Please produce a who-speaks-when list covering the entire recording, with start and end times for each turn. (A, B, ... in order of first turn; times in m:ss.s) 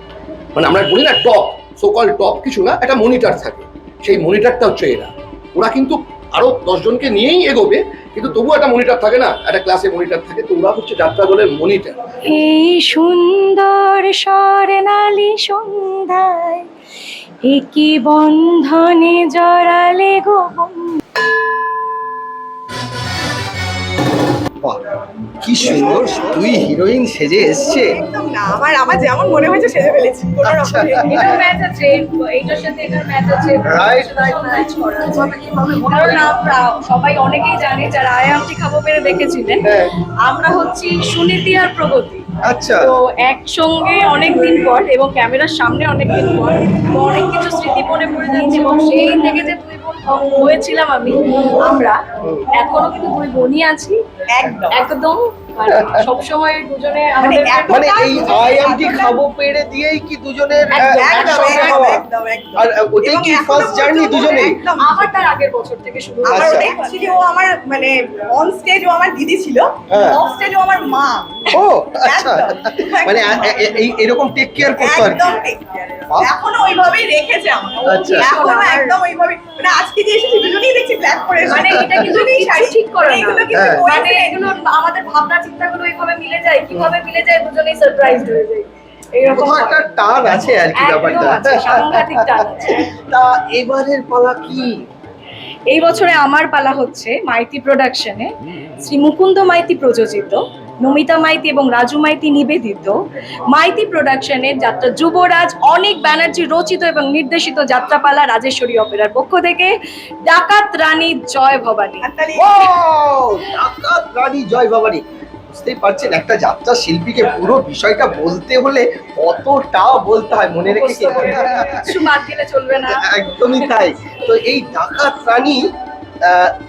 0:00.6-0:12.0 A
0:12.2-0:16.6 B
0:17.5-0:20.9 B
0:25.4-0:27.9 C
0:27.9-0:31.3 D
0:30.4-0:31.3 C
0:31.1-0:39.7 B
0:33.7-0:34.2 C
0:35.0-0:36.3 C
0:39.6-0:39.9 C
0:40.2-0:42.2 B
0:42.5-0:42.9 C
0:42.8-0:52.0 B
0:52.5-0:54.0 B
0:54.3-0:54.8 D
0:54.7-0:57.9 B
0:55.8-0:56.0 C
0:57.2-0:59.2 D
0:57.7-1:02.0 C
1:00.7-1:01.8 B
1:00.8-1:05.0 D
1:02.6-1:04.6 C
1:04.8-1:06.7 B
1:06.3-1:11.5 D
1:06.3-1:06.7 C
1:09.9-1:10.2 C
1:11.5-1:15.3 C
1:12.0-1:13.5 D
1:14.8-1:24.4 D
1:17.8-1:18.3 C
1:17.8-1:19.0 B
1:21.5-1:29.8 B
1:21.7-1:21.9 C
1:23.5-1:23.8 C
1:29.3-1:34.7 C
1:30.7-1:32.9 B
1:35.7-1:38.3 B
1:38.8-1:43.0 B
1:43.5-1:49.7 B
1:50.2-1:52.0 B
1:52.0-1:52.5 D
1:52.4-2:02.1 C
2:00.7-2:03.7 B
2:02.9-2:05.6 C
2:06.2-2:06.5 C